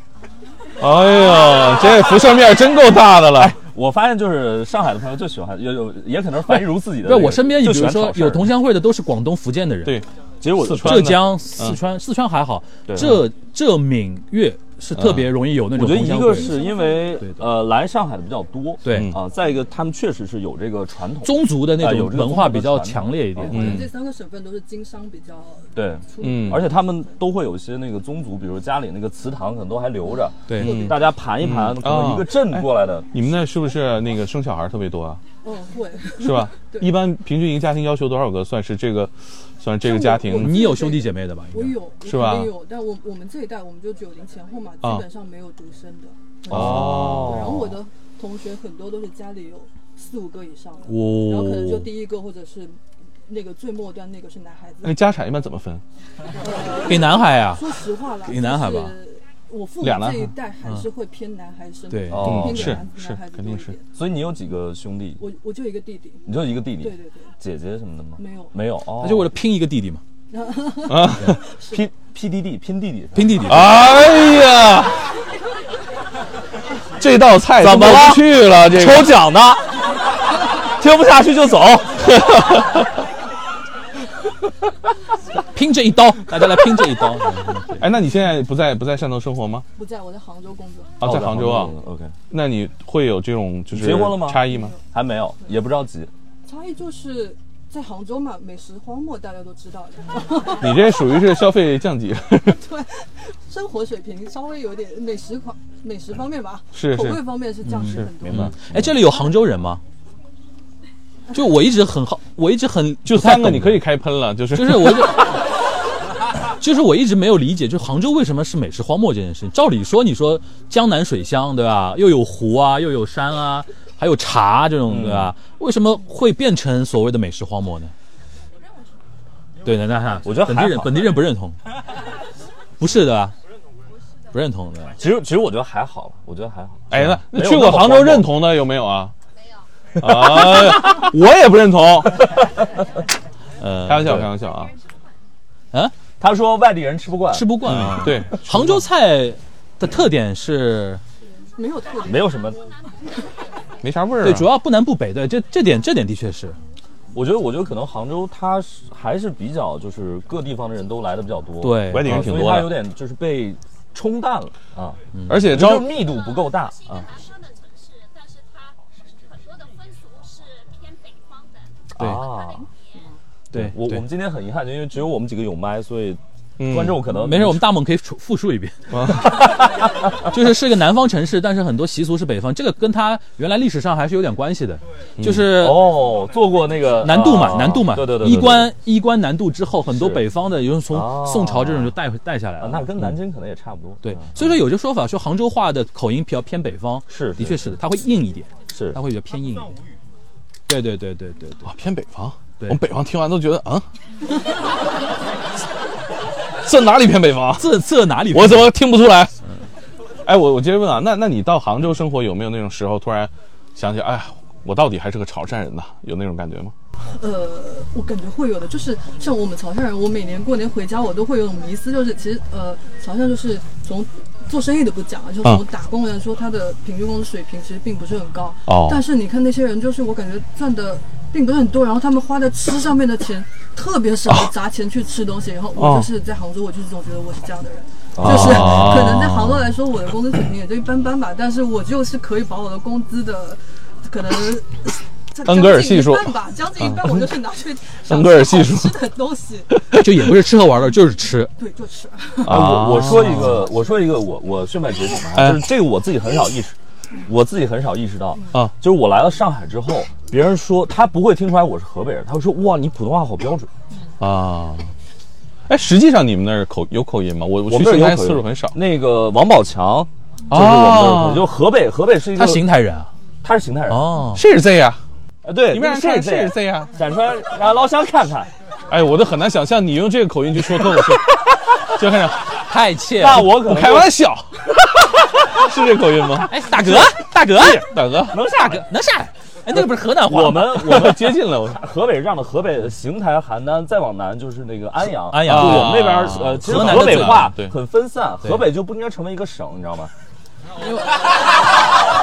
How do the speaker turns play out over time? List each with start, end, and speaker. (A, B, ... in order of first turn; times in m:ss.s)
0:00.8-0:03.5 A
0:03.4-0:08.5 B
0:06.5-0:10.0 C
0:09.8-0:11.8 A
0:10.4-0:11.2 B
0:10.8-0:16.5 C
0:12.9-0:13.2 B
0:15.0-0:15.3 A
0:15.7-0:23.8 B
0:16.2-0:17.2 D
0:18.8-0:19.2 C
0:18.9-0:19.2 A
0:21.2-0:23.8 C
0:23.4-0:26.7 D
0:23.5-0:23.9 A
0:25.8-0:33.1 B
0:26.2-0:26.6 A
0:30.5-0:30.9 C
0:30.6-0:35.2 A
0:35.4-0:36.9 D
0:36.2-0:40.6 A
0:39.8-0:55.0 D
0:40.4-0:41.8 C
0:42.0-0:42.5 A
0:46.5-0:47.5 A
0:46.5-0:47.8 B
0:50.9-0:51.9 C
0:54.8-0:55.8 A
0:56.3-1:03.9 D
0:56.8-0:58.9 C
0:59.8-1:00.3 A
1:01.9-1:02.7 C
1:02.1-1:02.8 B
1:02.2-1:03.7 A
1:03.9-1:05.2 B
1:05.2-1:07.3 D
1:06.2-1:09.3 B
1:08.2-1:08.6 D
1:09.0-1:10.0 C
1:10.3-1:11.8 D
1:10.9-1:11.4 A
1:11.6-1:13.6 B
1:13.1-1:13.7 C
1:13.5-1:15.0 A
1:17.0-1:19.1 A
1:17.6-1:19.7 B
1:20.6-1:22.2 B
1:22.1-1:22.8 A
1:25.5-1:27.8 C
1:27.8-1:29.6 A
1:29.8-1:31.0 D
1:31.0-1:31.8 A
1:31.0-1:32.1 B
1:32.3-1:34.7 A
1:33.7-1:36.1 B
1:34.5-1:34.8 D
1:36.4-1:41.0 D
1:40.6-1:42.6 A
1:42.4-1:48.6 D
1:46.7-1:47.2 A
1:47.6-1:49.8 C
1:48.2-1:48.5 B
1:51.3-1:53.8 C
1:53.0-1:55.4 A
1:54.5-1:55.4 C
1:56.6-2:07.9 C
2:04.9-2:05.3 B
2:09.6-2:11.6 C
2:10.2-2:11.2 B
2:12.8-2:13.3 C
2:14.3-2:14.8 C
2:14.8-2:18.3 B
2:16.9-2:19.1 A
2:16.9-2:17.2 C
2:20.0-2:22.4 A
2:23.6-2:24.3 C
2:23.8-2:24.7 A
2:26.2-2:28.3 B
2:27.3-2:31.0 C
2:27.6-2:28.6 A
2:31.6-2:32.4 D
2:32.0-2:32.6 B
2:33.8-2:34.5 A
2:34.2-2:36.6 C
2:37.1-2:47.1 B
2:41.6-2:42.3 C
2:41.9-2:42.7 A
2:45.1-2:45.5 C
2:45.3-2:46.0 A
2:46.3-2:51.6 E
2:51.9-2:52.6 B
2:52.0-2:52.2 C
2:52.2-2:52.7 E
2:52.6-2:53.1 D
2:53.5-2:54.0 C
2:53.5-2:57.7 B
2:56.6-2:57.0 A
2:57.1-2:59.3 C
2:58.9-2:59.4 A
2:59.2-2:59.6 B
3:00.3-3:06.0 C
3:05.2-3:05.5 A
3:05.4-3:08.7 B
3:07.0-3:12.9 C
3:09.9-3:10.2 B
3:10.9-3:11.9 B
3:12.6-3:14.4 B
3:14.0-3:19.8 C
3:17.1-3:17.8 B
3:18.7-3:19.0 B
3:20.7-3:21.7 C
3:21.6-3:23.9 A
3:26.6-3:27.8 A
3:27.6-3:28.7 C
3:28.3-3:29.3 A
3:30.2-3:36.7 A
3:37.1-4:09.8 D
3:48.6-3:49.0 A
3:55.8-3:56.1 A
3:58.2-3:58.9 B
3:58.2-3:59.7 A
4:05.4-4:07.3 A
4:08.0-4:09.1 A
4:09.7-4:10.1 A
4:09.9-4:11.5 C
4:11.6-4:12.7 D
4:12.4-4:13.6 A
4:12.5-4:23.7 B
4:15.3-4:15.7 A
4:24.2-4:24.9 A
4:25.7-4:28.8 A
4:27.7-4:32.7 B
4:30.5-4:31.5 A
4:32.3-4:33.1 C
4:33.4-4:34.2 B
4:33.9-4:34.4 C
4:34.3-4:35.0 A
4:35.4-4:38.5 B
4:35.7-4:37.0 A
4:38.9-4:41.4 A
4:41.9-4:42.5 A
4:42.7-4:43.5 C
4:43.2-4:44.1 B
4:43.3-4:46.5 A
4:46.5-4:47.9 C
4:46.8-4:47.2 B
4:47.9-4:48.4 A
4:48.3-4:48.9 B
4:48.5-4:50.9 C
4:50.1-5:00.1 B
4:50.7-4:51.8 A
4:55.3-4:57.5 C
4:55.4-4:57.7 A